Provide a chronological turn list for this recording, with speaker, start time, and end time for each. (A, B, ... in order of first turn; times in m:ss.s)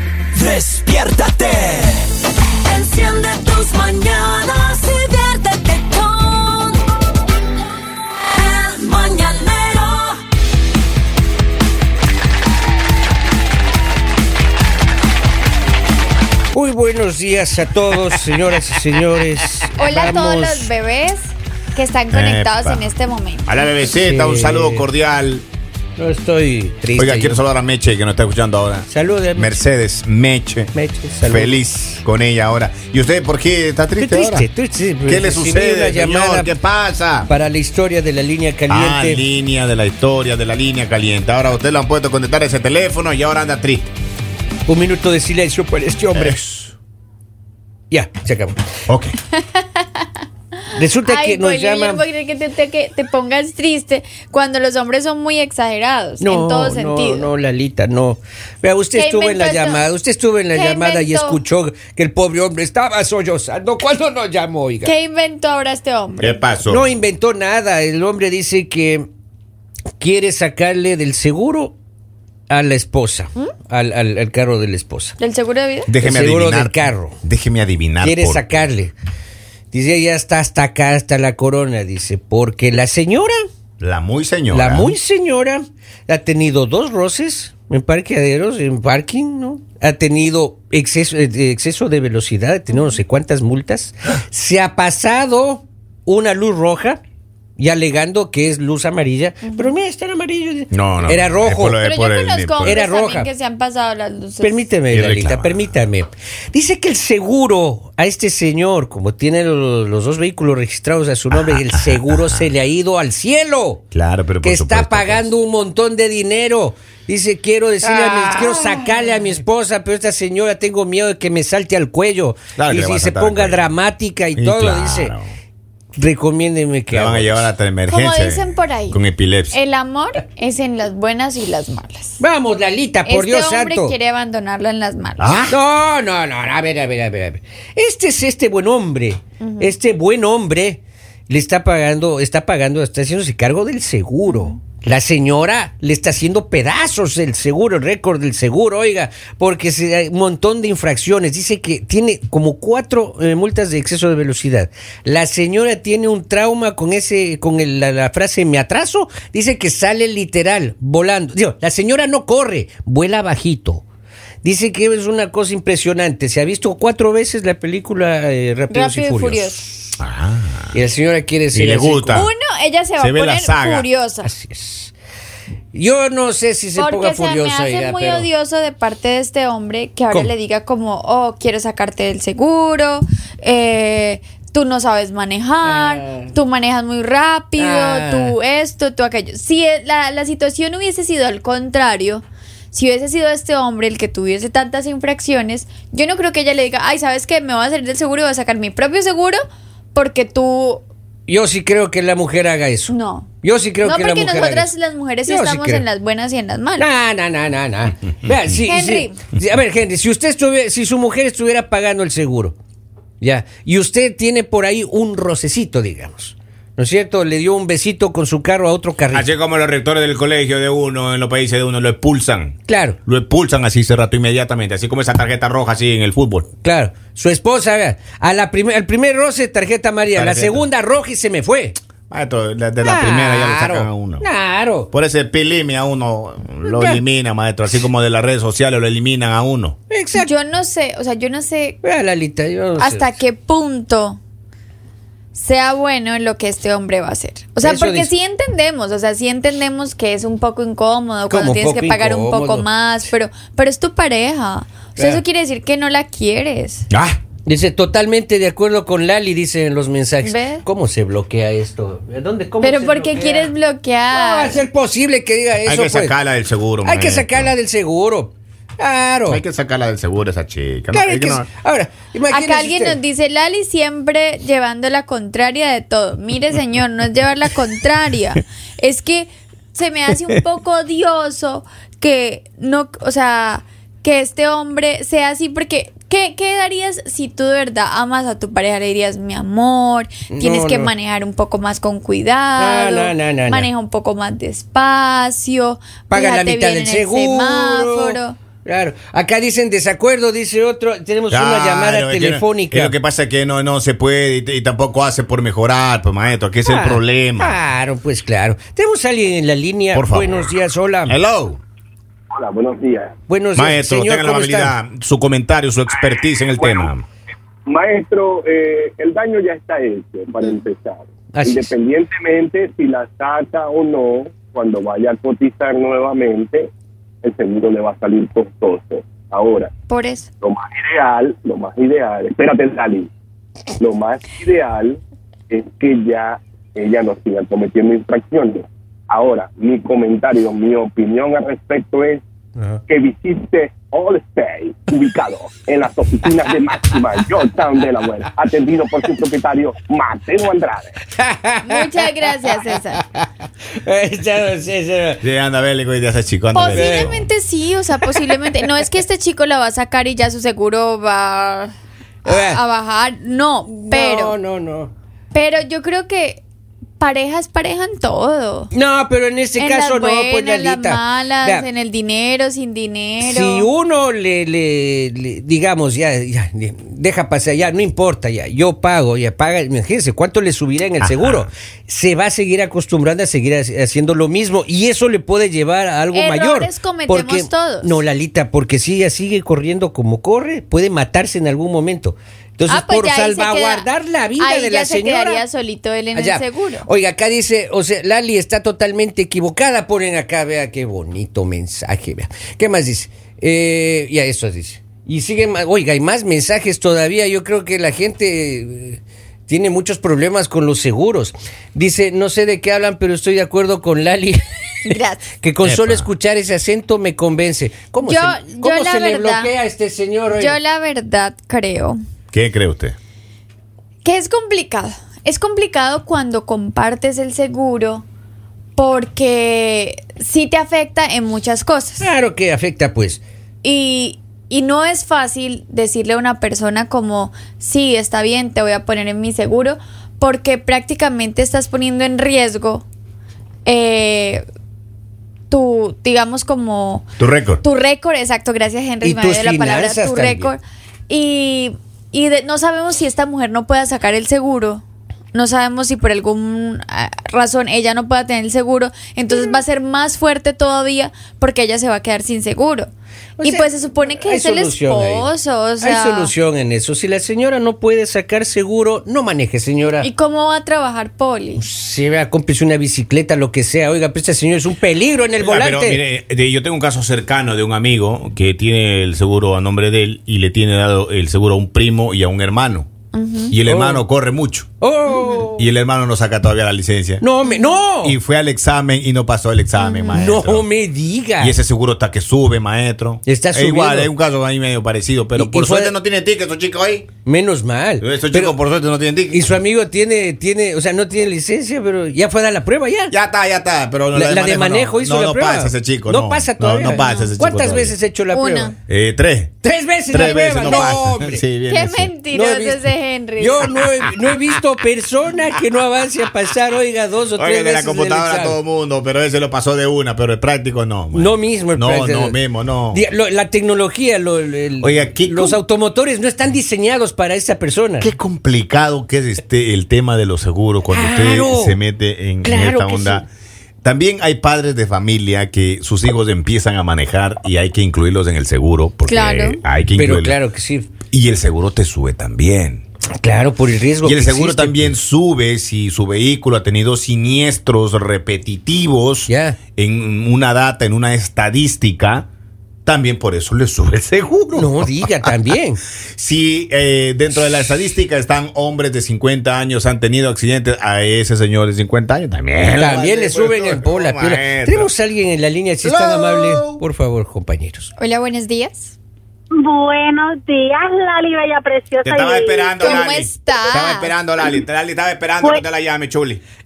0:00.4-0:02.1 A
0:02.6-0:06.8 A
0:08.3-0:10.2 A
0:16.5-0:20.7 B
0:19.7-0:23.5 C
0:22.1-0:22.9 D
0:23.4-0:25.4 D
0:23.9-0:24.9 B
0:26.0-0:27.4 B
0:26.9-0:34.5 D
0:28.9-0:29.6 B
0:30.7-0:31.6 B
0:34.0-0:36.5 B
0:35.0-0:37.3 D
0:37.3-0:39.2 B
0:38.7-0:43.8 D
0:44.7-0:46.4 B
0:46.1-0:46.7 D
0:47.9-0:48.6 B
0:48.9-0:49.2 D
0:49.4-0:50.0 C
0:50.7-0:57.3 C
0:50.8-0:52.0 B
0:56.2-1:04.9 B
0:58.9-0:59.9 C
1:00.5-1:01.4 C
1:04.8-1:06.4 C
1:06.2-1:06.9 D
1:06.6-1:09.1 B
1:10.0-1:11.7 B
1:12.5-1:15.1 B
1:15.2-1:15.9 C
1:15.9-1:18.7 D
1:16.0-1:17.2 B
1:18.0-1:18.9 B
1:19.7-1:23.4 B
1:23.8-1:24.9 D
1:24.5-1:37.0 B
1:32.7-1:33.0 C
1:37.6-1:41.8 B
1:39.4-1:39.8 C
1:40.7-1:42.8 D
1:41.8-1:44.7 C
1:42.6-1:43.3 B
1:44.4-1:53.9 B
1:44.9-1:45.8 D
1:51.5-1:51.8 D
1:53.9-1:55.3 D
1:54.4-2:05.1 B
1:57.8-1:59.0 D
2:02.6-2:03.7 D
2:04.3-2:05.3 D
2:06.0-2:07.5 B
2:06.9-2:09.6 D
2:07.9-2:09.0 C
2:09.5-2:12.2 C
2:12.2-2:14.0 B
2:13.0-2:15.3 C
2:15.2-2:15.6 D
2:15.5-2:43.8 B
2:19.4-2:19.7 C
2:24.3-2:24.6 C
2:44.4-2:50.0 B
2:48.7-2:49.6 C
2:50.0-2:50.8 D
2:50.7-2:52.3 B
2:51.5-2:52.3 D
2:52.1-2:54.3 C
2:53.0-2:53.9 D
2:54.2-2:54.9 B
2:55.7-2:58.3 B
2:56.8-3:19.4 C
3:05.6-3:06.3 B
3:07.6-3:08.4 B
3:19.9-3:20.8 C
3:21.3-3:24.7 B
3:22.9-3:23.3 C
3:23.8-3:26.9 C
3:25.3-3:25.8 B
3:26.8-3:32.6 B
3:28.7-3:29.2 C
3:33.2-3:39.2 B
3:39.1-3:46.5 D
3:42.7-3:43.0 B
3:46.6-3:51.8 B
3:50.1-3:50.6 D
3:52.1-3:54.3 D
3:52.8-3:54.9 B
3:54.9-3:59.8 D
3:56.6-3:57.0 B
3:59.9-4:00.3 B
4:00.2-4:01.8 C
4:01.8-4:03.1 B
4:02.8-4:04.2 C
4:05.3-4:16.8 C
4:07.6-4:08.1 B
4:11.3-4:12.6 B
4:15.0-4:15.2 B
4:16.9-4:17.2 D
4:17.4-4:23.5 B
4:20.2-4:20.6 C
4:22.6-4:24.6 C
4:24.1-4:26.1 B
4:25.6-4:27.5 D
4:26.8-4:29.4 B
4:29.3-4:31.5 D
4:30.9-4:33.0 B
4:32.3-4:58.4 C
4:50.3-4:50.9 B
4:52.6-4:53.7 B
4:56.1-5:02.9 B
5:01.3-5:07.6 D
5:06.6-5:11.1 B
5:09.9-5:10.5 D
5:11.1-5:11.6 D
5:12.3-5:13.2 E
5:13.3-5:14.7 B
5:13.5-5:17.0 D
5:16.5-5:16.9 E
5:17.7-5:26.7 E
5:21.3-5:21.7 B
5:27.2-5:29.7 E
5:29.9-5:30.3 C
5:30.4-5:33.1 E
5:33.8-5:42.2 E
5:42.9-5:51.0 E
5:51.1-5:51.9 B
5:51.6-5:53.0 C
5:53.0-5:55.2 B
5:55.2-5:57.3 D
5:56.5-6:01.7 C
5:56.7-5:57.1 B
5:58.1-5:58.3 B
6:02.2-6:04.4 C
6:02.2-6:02.6 B
6:03.7-6:04.9 B
6:05.3-6:06.4 C
6:07.0-6:08.7 C
6:08.7-6:11.6 B
6:09.6-6:13.7 C
6:13.2-6:35.4 B
6:21.0-6:21.5 D
6:26.1-6:28.0 C
6:32.7-6:36.9 C
6:36.1-6:54.4 B
6:54.9-6:55.3 C
6:55.4-7:00.6 B
6:55.6-6:56.1 D
6:58.0-6:59.5 C
7:00.3-7:02.0 C
7:02.3-7:03.0 D
7:04.0-7:08.0 C
7:08.8-7:12.1 C
7:12.0-7:13.2 B
7:13.6-7:22.8 C
7:23.6-7:24.4 C
7:25.5-7:27.1 C
7:27.2-7:27.6 D
7:27.6-7:42.9 C
7:29.0-7:30.5 B
7:43.4-7:45.3 B
7:43.4-7:46.3 C
7:45.8-7:50.1 B
7:50.0-7:51.6 C
7:51.6-7:56.0 B
7:55.4-8:02.9 D
8:03.1-8:03.5 C
8:03.5-8:04.7 D
8:03.6-8:04.0 B
8:04.8-8:05.7 B
8:05.1-8:05.5 C
8:05.5-8:07.2 D
8:07.2-8:08.2 B
8:07.4-8:07.8 C
8:08.0-8:10.7 D
8:09.8-8:10.2 C
8:10.1-8:11.6 B
8:11.4-8:17.1 D
8:13.3-8:14.1 B
8:15.3-8:15.9 B
8:17.2-8:18.6 B
8:18.0-8:19.5 D
8:19.3-8:23.1 B
8:23.1-8:28.0 D
8:24.1-8:28.7 B
8:26.8-8:27.3 C
8:28.3-8:28.7 C
8:28.9-8:29.5 D
8:29.6-8:31.4 B
8:30.1-8:32.1 D
8:30.2-8:31.0 C
8:31.7-8:33.7 C
8:32.3-8:32.8 B
8:33.4-8:38.6 B
8:37.3-8:43.0 D
8:41.1-8:42.4 B
8:42.9-8:48.1 B
8:44.8-8:45.6 D
8:48.0-8:53.2 D
8:50.9-8:51.8 B
8:52.4-8:53.2 B
8:53.8-9:00.4 D
8:59.1-8:59.6 C
9:00.0-9:01.0 B
9:01.1-9:02.8 D
9:03.1-9:04.9 B
9:04.0-9:12.3 D
9:09.3-9:09.6 B
9:12.8-9:15.4 D
9:14.5-9:15.8 B
9:16.1-9:24.9 D
9:22.6-9:27.9 B
9:25.8-9:26.8 D
9:28.0-9:28.9 C
9:29.5-9:33.1 F
9:32.0-9:36.4 D
9:32.8-9:34.1 C